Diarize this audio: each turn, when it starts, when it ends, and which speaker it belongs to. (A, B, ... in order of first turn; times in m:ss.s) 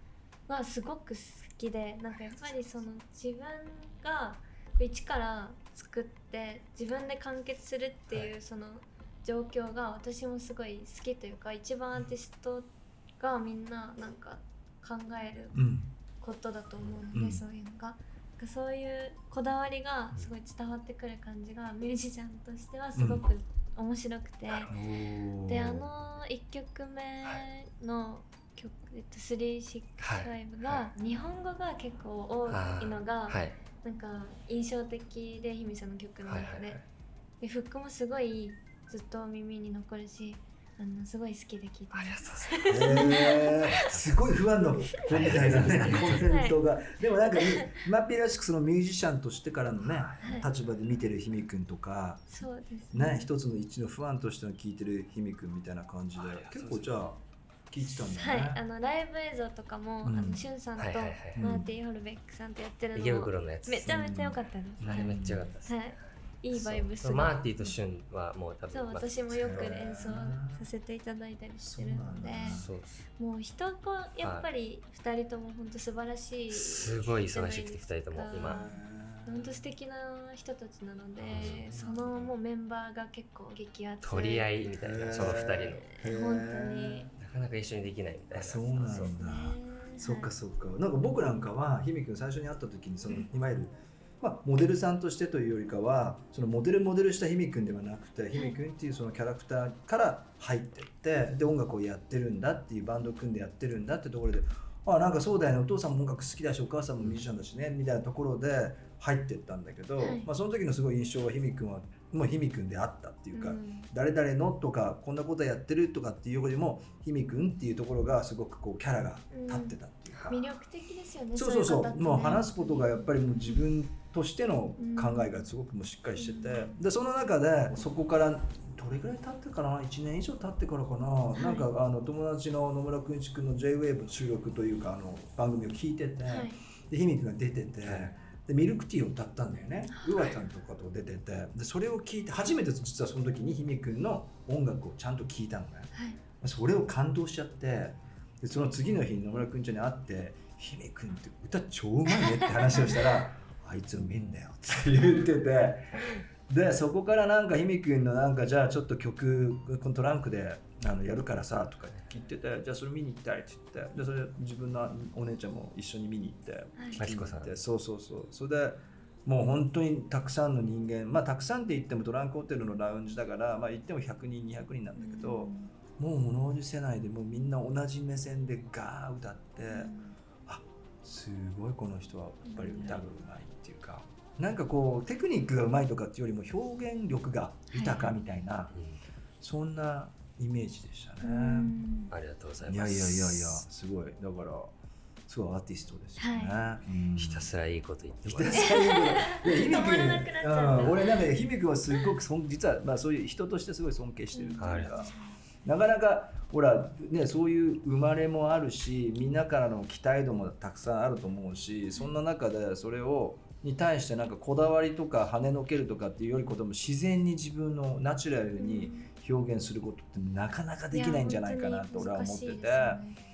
0:00.5-0:15.7 A
0:15.5-0:15.9 B
0:16.2-0:24.7 A
0:17.1-0:17.4 B
0:23.0-0:23.3 B
0:24.7-0:25.9 B
0:25.5-0:36.8 A
0:30.0-0:30.9 C
0:32.5-0:33.6 C
0:36.2-0:36.8 C
0:37.4-0:43.8 A
0:41.9-0:44.4 C
0:42.7-0:52.4 B
0:44.9-0:46.6 A
0:45.0-0:46.3 C
0:47.2-0:47.8 A
0:49.9-0:50.4 C
0:50.2-0:50.5 A
0:52.3-0:53.3 A
0:52.9-0:58.6 B
0:56.2-0:57.0 C
0:58.0-1:07.7 A
1:00.0-1:00.5 B
1:00.8-1:01.4 C
1:01.4-1:01.7 B
1:03.0-1:03.9 C
1:03.9-1:05.5 B
1:04.8-1:09.7 C
1:08.7-1:12.7 A
1:09.4-1:10.7 B
1:11.6-1:12.7 B
1:12.4-1:13.0 C
1:13.2-1:24.5 A
1:14.2-1:14.5 C
1:16.5-1:18.7 C
1:18.4-1:19.6 B
1:21.2-1:22.3 C
1:21.3-1:22.0 B
1:24.0-1:25.9 C
1:24.6-1:27.1 B
1:25.9-1:27.1 A
1:27.2-1:29.2 C
1:28.3-2:00.4 B
1:29.2-1:30.3 A
1:50.0-1:50.3 A
1:53.3-1:53.9 A
1:59.3-1:59.8 A
2:00.3-2:03.6 A
2:01.4-2:59.9 B
2:04.8-2:05.5 A
2:06.2-2:06.8 A
2:11.4-2:11.7 A
2:16.3-2:16.6 A
2:19.9-2:20.3 A
2:32.2-2:33.2 A
2:46.8-2:47.0 A
2:47.0-2:47.5 C
2:55.0-2:55.7 A
2:59.6-3:00.2 A
3:00.5-3:08.8 B
3:02.4-3:03.0 A
3:07.7-3:08.1 A
3:08.7-3:09.0 C
3:09.4-3:11.8 B
3:11.2-3:12.1 A
3:12.1-3:13.6 C
3:12.6-3:14.7 B
3:15.3-3:17.5 B
3:16.2-3:16.6 A
3:17.2-3:18.8 C
3:18.2-3:25.1 B
3:18.5-3:22.1 A
3:24.3-3:25.4 A
3:24.6-3:25.1 C
3:25.6-3:43.0 B
3:38.6-3:39.1 A
3:40.9-3:43.2 A